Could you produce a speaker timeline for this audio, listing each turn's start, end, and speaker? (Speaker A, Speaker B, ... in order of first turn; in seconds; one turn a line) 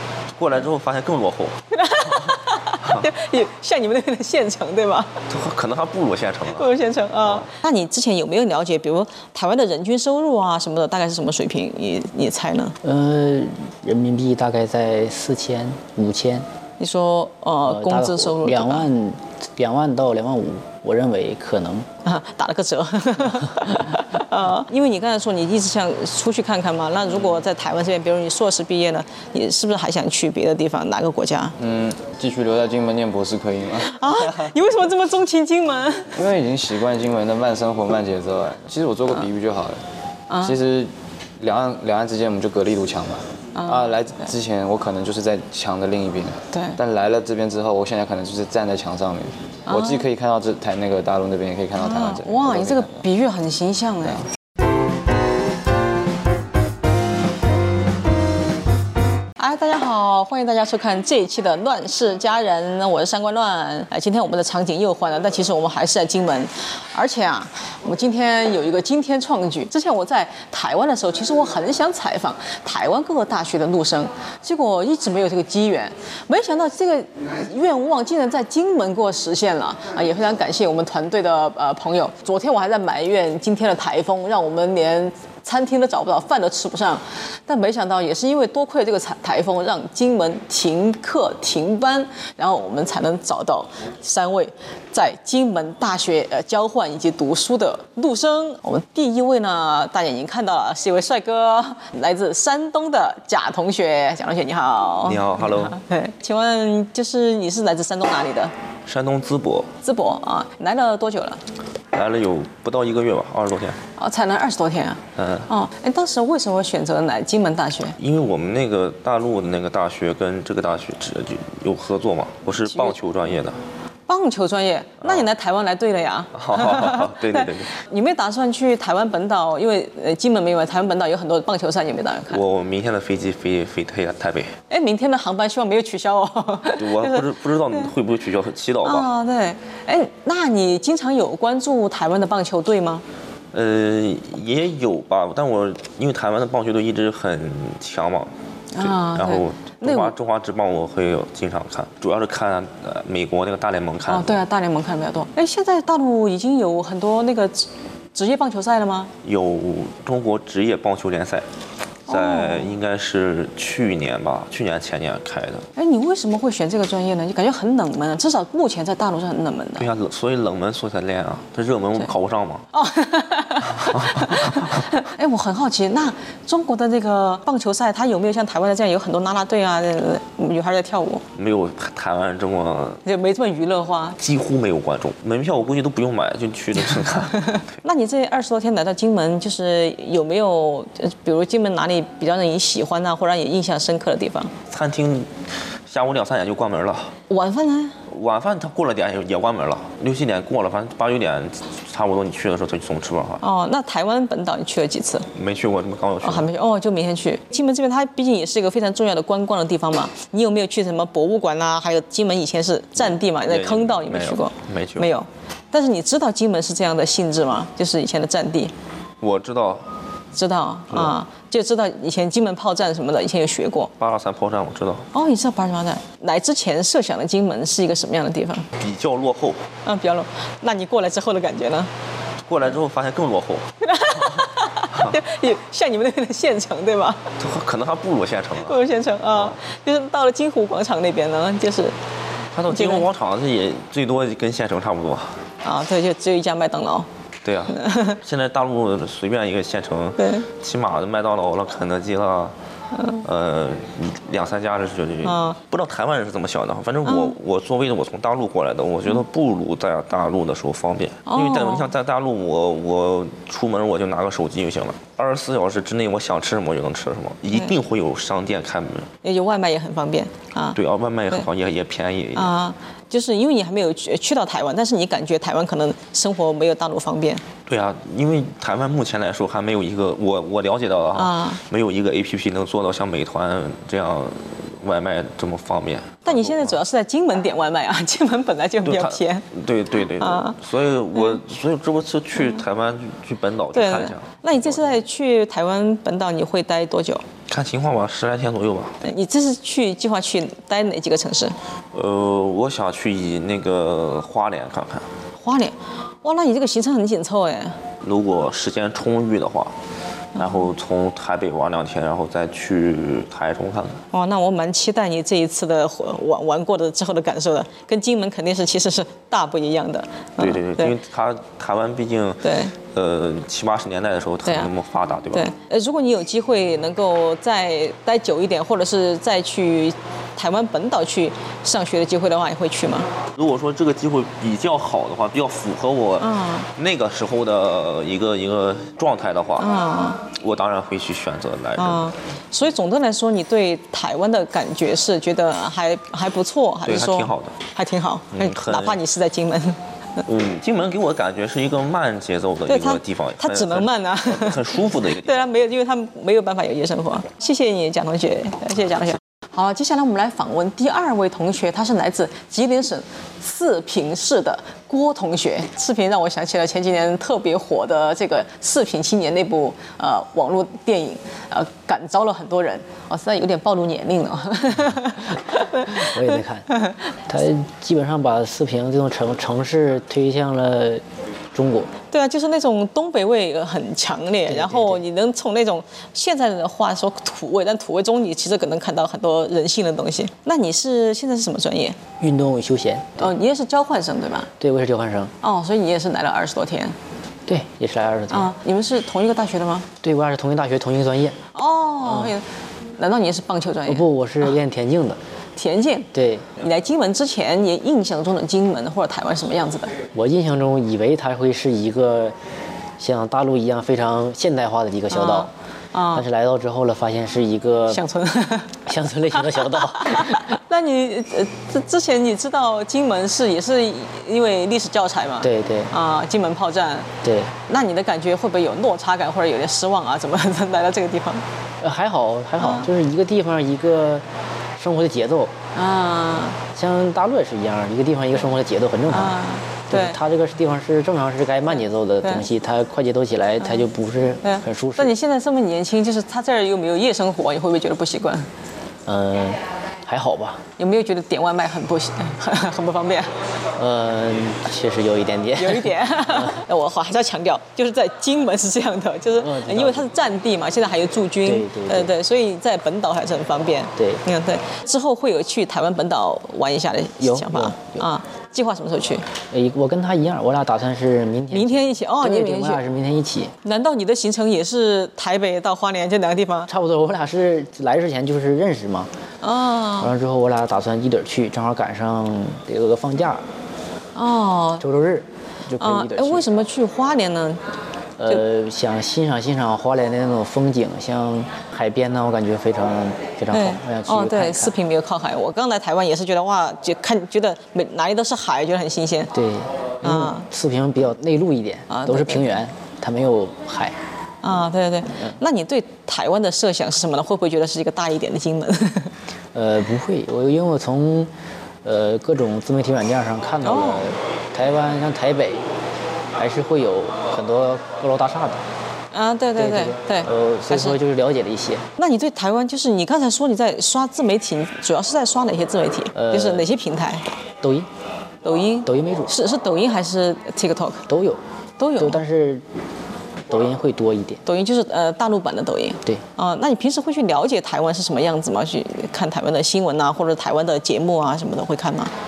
Speaker A: 0.4-3.1
Speaker B: 1.7-5.2
Speaker A: 5.3-6.7
Speaker B: 6.5-12.8
Speaker C: 12.8-16.5
Speaker B: 16.8-18.9
Speaker C: 17.7-21.9
Speaker B: 22.1-31.6
Speaker D: 31.6-34.6
Speaker B: 33.8-36.2
Speaker D: 36.1-39.8
Speaker B: 40.3-40.6
Speaker D: 40.4-53.1
Speaker B: 43.5-44.3
Speaker B: 46.5-46.8
Speaker B: 49.7-50.0
Speaker B: 51.8-54.2
Speaker B: 59.4-108.5
Speaker A: 105.0-105.8
Speaker A: 108.9-109.7
Speaker B: 109.8-111.4
Speaker A: 111.9-113.8
Speaker B: 114.0-118.0
Speaker A: 115.2-115.5
Speaker A: 118.0-123.6
Speaker B: 122.7-123.0
Speaker B: 124.1-132.4
Speaker A: 125.0-125.3
Speaker A: 126.3-127.7
Speaker A: 132.3-134.5
Speaker B: 134.7-137.9
Speaker A: 136.8-139.1
Speaker B: 138.8-143.1
Speaker A: 143.5-154.4
Speaker B: 148.7-150.1
Speaker B: 154.1-159.1
Speaker A: 159.2-161.5
Speaker B: 162.1-162.8
Speaker A: 162.1-165.7
Speaker B: 165.8-169.9
Speaker A: 169.8-172.7
Speaker B: 172.7-181.2
Speaker A: 173.8-174.9
Speaker A: 181.3-183.0
Speaker B: 183.0-184.2
Speaker A: 184.2-187.6
Speaker B: 187.5-194.5
Speaker A: 194.7-195.3
Speaker A: 195.9-197.1
Speaker B: 197.3-198.0
Speaker A: 198.1-203.4
Speaker B: 203.4-205.3
Speaker A: 205.3-206.5
Speaker B: 206.2-218.7
Speaker A: 213.0-215.1
Speaker A: 219.2-219.9
Speaker B: 220.3-223.9
Speaker A: 224.0-225.1
Speaker B: 225.1-228.7
Speaker A: 228.8-229.6
Speaker B: 229.8-231.9
Speaker A: 232.5-233.7
Speaker B: 233.8-237.3
Speaker A: 234.3-235.2
Speaker A: 237.4-239.6
Speaker B: 238.6-242.0
Speaker A: 242.5-245.4
Speaker B: 242.7-243.1
Speaker B: 245.6-247.1
Speaker A: 247.4-252.6
Speaker B: 247.8-248.2
Speaker B: 250.2-250.5
Speaker B: 252.9-253.2
Speaker A: 253.2-269.1
Speaker B: 255.2-255.6
Speaker B: 257.1-257.4
Speaker B: 261.3-261.9
Speaker B: 269.2-270.8
Speaker A: 270.8-272.5
Speaker B: 272.4-277.4
Speaker A: 277.7-286.8
Speaker B: 281.1-281.6
Speaker B: 286.2-289.5
Speaker A: 288.9-294.9
Speaker B: 290.2-290.6
Speaker B: 291.1-291.4
Speaker B: 293.7-297.2
Speaker A: 297.5-299.0
Speaker B: 299.0-301.6
Speaker A: 301.9-305.1
Speaker B: 305.4-307.8
Speaker A: 308.0-309.7
Speaker B: 310.4-310.7
Speaker A: 310.4-314.0
Speaker B: 314.1-320.9
Speaker A: 320.4-325.5
Speaker B: 322.4-322.8
Speaker B: 324.4-324.7
Speaker B: 325.3-333.1
Speaker A: 333.4-339.7
Speaker B: 336.2-336.7
Speaker B: 339.6-340.2
Speaker A: 340.3-342.1
Speaker B: 341.8-349.8
Speaker A: 346.9-347.6
Speaker A: 348.3-349.0
Speaker A: 350.2-355.5
Speaker B: 352.7-376.9
Speaker C: 375.9-376.7
Speaker C: 377.3-381.9
Speaker B: 382.1-392.0
Speaker C: 384.5-385.0
Speaker C: 392.2-393.3
Speaker B: 393.2-394.5
Speaker C: 394.6-395.3
Speaker B: 395.4-397.0
Speaker C: 397.5-398.5
Speaker B: 398.3-399.9
Speaker C: 400.0-401.4
Speaker B: 401.5-402.4
Speaker C: 402.0-402.4
Speaker B: 403.0-404.5
Speaker C: 403.9-405.2
Speaker B: 405.6-409.9
Speaker C: 406.1-406.5
Speaker C: 410.1-412.4
Speaker C: 413.0-415.5
Speaker B: 415.1-416.3
Speaker C: 416.1-418.0
Speaker B: 417.9-418.8
Speaker C: 418.9-420.6
Speaker B: 419.4-427.1
Speaker C: 425.4-425.9
Speaker C: 427.2-427.5
Speaker B: 427.6-431.4
Speaker C: 431.8-434.3
Speaker B: 432.6-432.9
Speaker C: 434.8-435.5
Speaker B: 435.7-436.6
Speaker C: 436.7-439.4
Speaker B: 439.1-440.2
Speaker C: 439.9-445.1
Speaker B: 444.4-448.5
Speaker C: 449.1-450.6
Speaker B: 450.8-453.3
Speaker C: 453.8-456.6
Speaker B: 455.6-469.3
Speaker C: 459.4-460.1
Speaker C: 461.4-462.1
Speaker C: 464.0-464.2
Speaker C: 467.2-468.1
Speaker C: 469.5-473.6
Speaker B: 471.5-472.8
Speaker B: 473.6-476.7
Speaker C: 476.7-479.1
Speaker B: 479.4-480.1
Speaker C: 480.0-483.5
Speaker B: 484.1-484.9
Speaker C: 484.8-486.5
Speaker B: 485.8-487.6
Speaker C: 488.2-494.8
Speaker B: 493.5-499.3
Speaker C: 499.3-504.0
Speaker B: 500.0-500.5
Speaker B: 501.9-502.6
Speaker B: 504.4-509.1
Speaker C: 509.5-511.3
Speaker C: 511.8-515.7
Speaker B: 513.6-514.1
Speaker C: 516.4-518.6
Speaker B: 519.1-521.0
Speaker C: 519.6-521.9
Speaker B: 522.0-527.2
Speaker C: 526.1-526.7
Speaker C: 527.6-527.9
Speaker B: 528.4-531.1
Speaker C: 528.9-529.3
Speaker C: 531.1-531.4
Speaker B: 531.8-532.2
Speaker C: 532.0-532.6
Speaker C: 533.5-534.4
Speaker B: 534.5-542.1